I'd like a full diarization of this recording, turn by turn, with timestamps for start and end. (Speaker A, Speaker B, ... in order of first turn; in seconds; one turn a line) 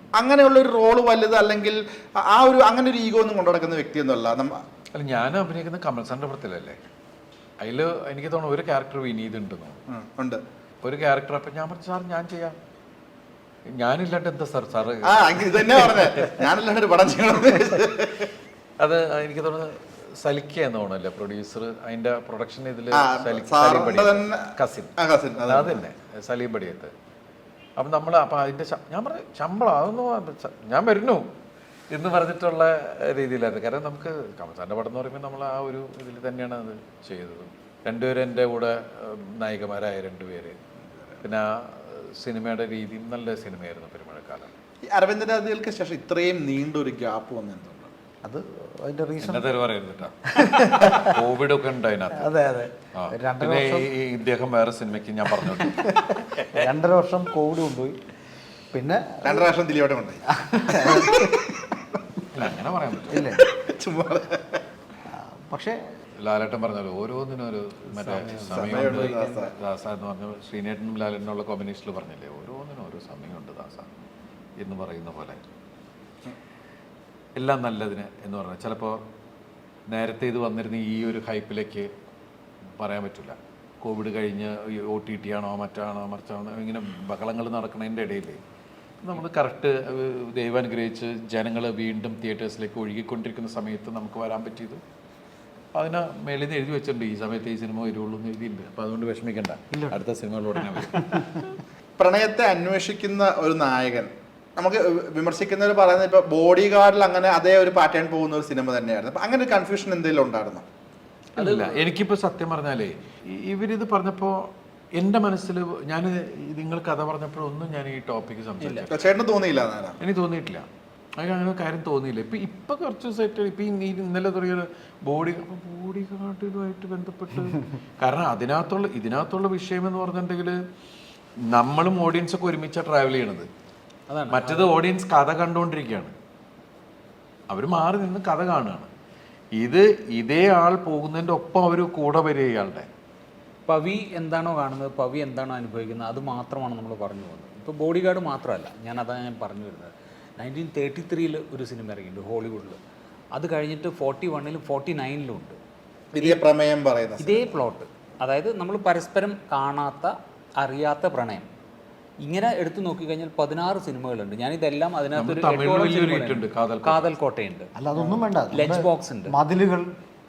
Speaker A: 0.2-4.6
Speaker B: 5.0-6.8
Speaker B: 7.6-9.8
Speaker A: 9.9-10.4
Speaker B: 10.8-12.6
Speaker B: 13.7-16.5
Speaker A: 15.0-18.3
Speaker B: 18.8-24.9
Speaker A: 22.9-25.8
Speaker B: 25.5-26.9
Speaker B: 27.8-31.3
Speaker B: 31.9-40.6
Speaker B: 41.2-44.5
Speaker A: 44.9-47.9
Speaker C: 48.2-49.5
Speaker B: 49.2-52.4
Speaker C: 50.3-51.1
Speaker C: 52.1-53.9
Speaker B: 53.0-56.7
Speaker C: 55.5-58.0
Speaker C: 58.7-59.5
Speaker A: 59.2-61.6
Speaker C: 60.3-61.4
Speaker B: 62.3-63.4
Speaker C: 63.1-63.4
Speaker A: 63.3-64.6
Speaker C: 65.1-65.8
Speaker B: 66.2-73.9
Speaker A: 68.5-69.5
Speaker B: 74.6-75.4
Speaker B: 77.4-79.0
Speaker B: 79.9-81.9
Speaker B: 82.8-88.4
Speaker B: 89.0-94.8
Speaker B: 95.7-101.5
Speaker A: 102.0-110.7
Speaker B: 111.4-119.2
Speaker D: 111.4-111.8
Speaker A: 118.9-120.0
Speaker B: 120.0-120.7
Speaker B: 121.2-130.6
Speaker B: 131.5-133.5
Speaker D: 134.1-134.8
Speaker B: 134.3-136.1
Speaker B: 137.5-138.9
Speaker B: 139.6-142.9
Speaker D: 143.7-152.8
Speaker D: 153.3-155.6
Speaker A: 156.2-157.6
Speaker D: 156.2-156.4
Speaker D: 157.2-161.5
Speaker D: 162.2-167.7
Speaker B: 165.1-167.2
Speaker C: 167.8-169.9
Speaker D: 168.5-169.4